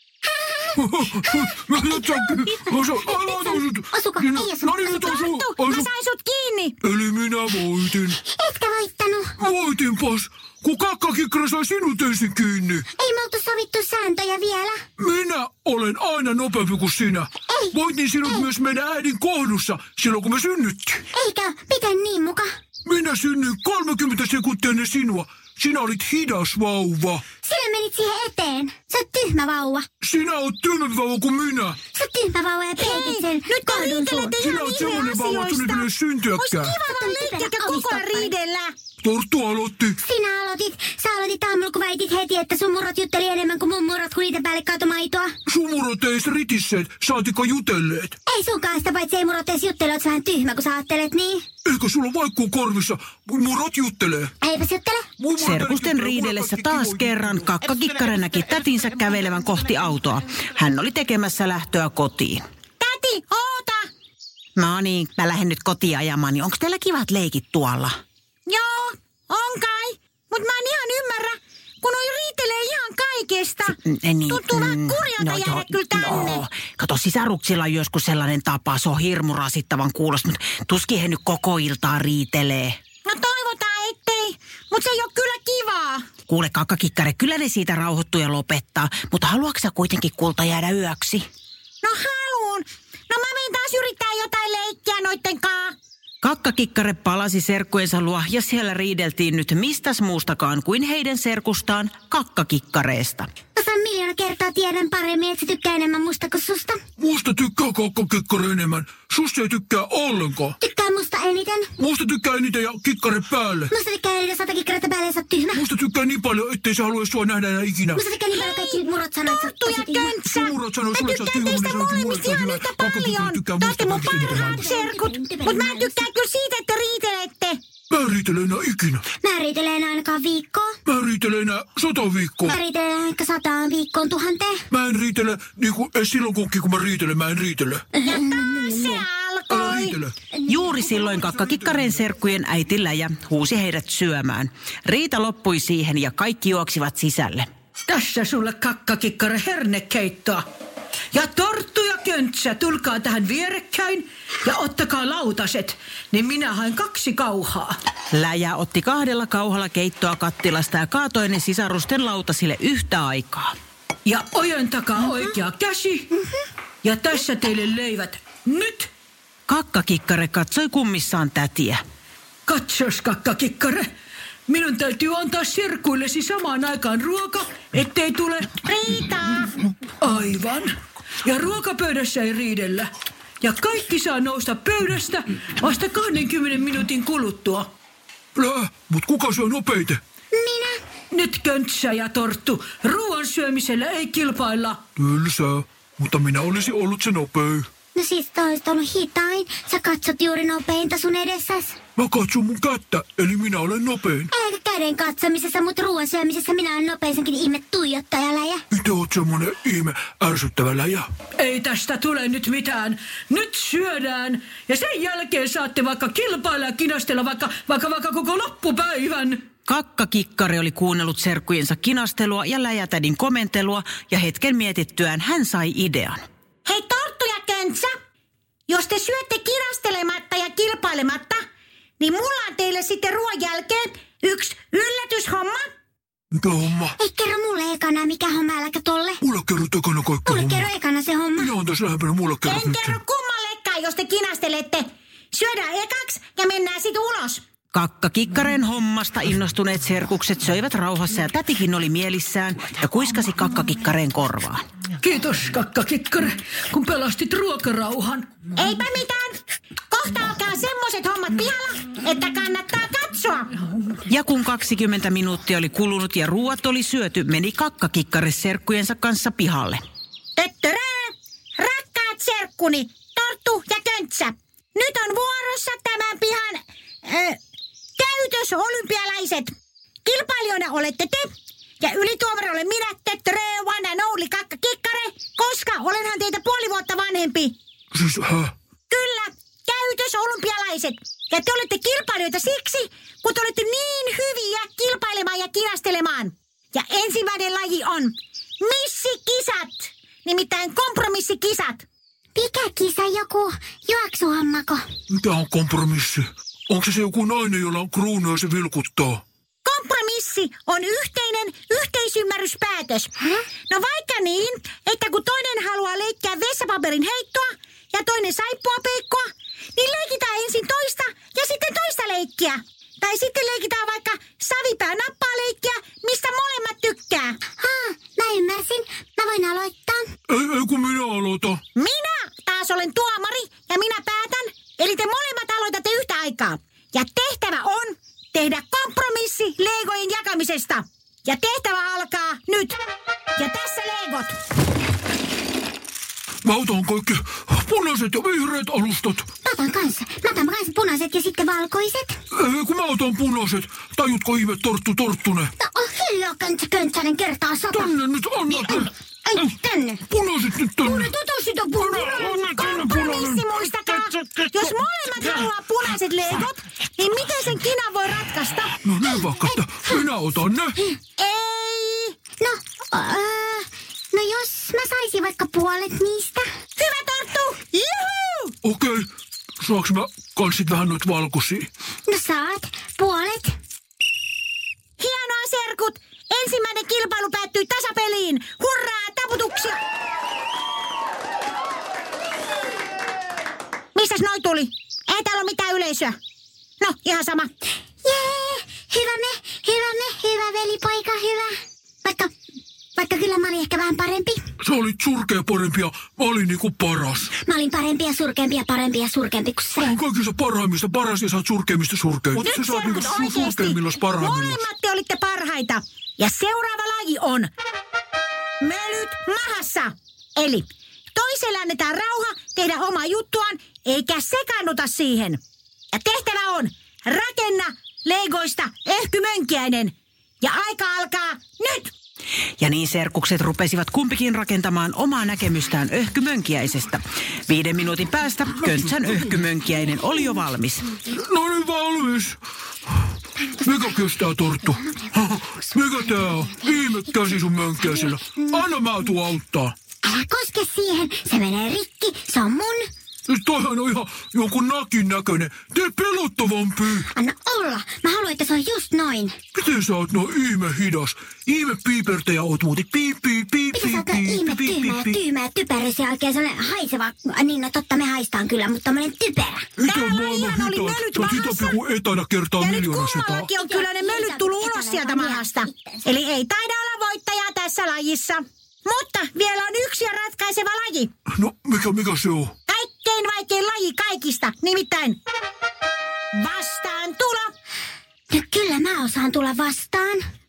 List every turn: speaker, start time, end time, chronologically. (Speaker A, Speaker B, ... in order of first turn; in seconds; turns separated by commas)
Speaker A: 0.2-5.2, Speaker B: 0.8-5.9, Speaker C: 5.1-6.8, Speaker B: 6.8-8.2, Speaker A: 8.2-9.3, Speaker B: 9.4-12.8, Speaker A: 12.9-14.8, Speaker B: 15.0-21.1, Speaker A: 17.5-18.4, Speaker A: 21.1-22.5, Speaker B: 22.8-27.2, Speaker A: 27.4-29.9, Speaker B: 30.0-31.8, Speaker A: 31.9-34.4, Speaker C: 32.8-38.7, Speaker B: 34.4-36.8, Speaker A: 36.7-38.3, Speaker B: 39.0-40.0, Speaker A: 40.0-45.3, Speaker B: 45.5-48.1, Speaker A: 48.3-51.5, Speaker B: 51.6-54.3, Speaker A: 54.4-55.1, Speaker B: 55.2-57.5, Speaker D: 55.4-62.4, Speaker C: 62.8-63.9, Speaker D: 64.5-68.0, Speaker C: 68.5-73.8, Speaker D: 73.7-82.8, Speaker C: 74.3-76.4, Speaker C: 83.0-86.1, Speaker D: 86.3-91.2, Speaker C: 91.8-95.8, Speaker D: 96.2-103.3, Speaker A: 103.5-106.8, Speaker B: 107.0-110.6, Speaker A: 110.6-111.7, Speaker B: 111.8-113.7, Speaker A: 113.7-115.6, Speaker B: 115.5-118.0, Speaker A: 117.9-120.2, Speaker C: 118.3-127.6, Speaker B: 120.2-124.7, Speaker A: 124.2-126.1, Speaker B: 127.9-129.0, Speaker A: 129.2-130.7, Speaker B: 130.8-132.6, Speaker A: 132.4-134.7, Speaker B: 134.7-137.9, Speaker A: 137.9-139.0, Speaker C: 138.0-140.0, Speaker B: 139.5-140.1, Speaker A: 140.3-140.7, Speaker D: 140.4-147.5, Speaker B: 141.1-141.9, Speaker E: 147.9-150.4, Speaker E: 151.1-157.8, Speaker D: 158.1-163.5, Speaker E: 164.1-166.1, Speaker E: 166.8-168.9, Speaker D: 169.5-171.8, Speaker E: 172.5-173.9, Speaker E: 174.5-178.5, Speaker C: 178.6-179.5, Speaker E: 180.0-182.9, Speaker E: 183.4-187.7, Speaker B: 188.3-190.0, Speaker A: 190.3-190.8, Speaker E: 191.1-194.8, Speaker B: 194.9-197.7, Speaker A: 197.9-201.8, Speaker B: 202.0-204.3, Speaker A: 204.3-208.6, Speaker B: 208.7-211.1, Speaker E: 211.4-219.4, Speaker D: 219.7-226.2, Speaker C: 226.7-227.9, Speaker C: 228.7-231.4, Speaker C: 232.0-235.7, Speaker B: 236.3-236.9, Speaker A: 237.0-239.2, Speaker B: 239.2-240.7, Speaker A: 240.2-241.5, Speaker B: 241.3-243.0, Speaker C: 242.4-247.4, Speaker D: 247.7-254.6, Speaker E: 255.0-258.3, Speaker C: 258.6-263.5, Speaker D: 264.1-269.8, Speaker C: 270.4-277.4, Speaker C: 278.0-279.5, Speaker C: 280.1-287.6, Speaker B: 287.9-288.5, Speaker C: 288.9-301.8, Speaker A: 302.3-304.9, Speaker B: 305.1-309.2, Speaker C: 309.6-313.1, Speaker C: 313.7-327.4, Speaker A: 327.5-330.1, Speaker B: 330.3-331.6, Speaker C: 331.7-342.8, Speaker C: 343.4-344.4, Speaker B: 346.4-349.3, Speaker A: 349.4-352.2, Speaker B: 352.3-355.5, Speaker A: 355.6-357.9, Speaker B: 357.7-358.9, Speaker A: 358.5-360.0, Speaker B: 360.1-361.1, Speaker A: 360.8-362.4, Speaker B: 361.8-364.7, Speaker C: 362.4-368.8, Speaker B: 368.8-370.8, Speaker C: 371.2-372.1, Speaker A: 372.4-376.4, Speaker C: 376.8-378.5, Speaker B: 378.6-379.1, Speaker B: 379.6-381.7, Speaker A: 382.1-383.6, Speaker C: 385.0-389.8, Speaker C: 393.9-396.1, Speaker C: 396.8-397.5, Speaker A: 398.0-401.5, Speaker A: 402.0-402.3, Speaker A: 402.9-404.4, Speaker B: 404.6-407.3, Speaker A: 407.4-409.9, Speaker B: 409.8-414.7, Speaker C: 412.4-417.5, Speaker C: 418.6-425.4, Speaker C: 425.9-431.9, Speaker D: 432.6-441.0, Speaker B: 438.6-439.3, Speaker B: 441.0-443.1, Speaker A: 443.5-443.9, Speaker B: 443.6-449.7, Speaker A: 444.8-447.2, Speaker A: 447.8-448.6, Speaker A: 450.0-452.8, Speaker B: 453.3-457.1, Speaker A: 457.1-459.4, Speaker B: 459.5-465.2, Speaker A: 463.7-469.7, Speaker B: 469.8-473.5, Speaker C: 469.8-471.8, Speaker C: 472.6-481.1, Speaker A: 473.6-476.0, Speaker B: 481.3-482.6, Speaker C: 482.7-485.2, Speaker C: 486.3-487.5, Speaker A: 488.3-490.2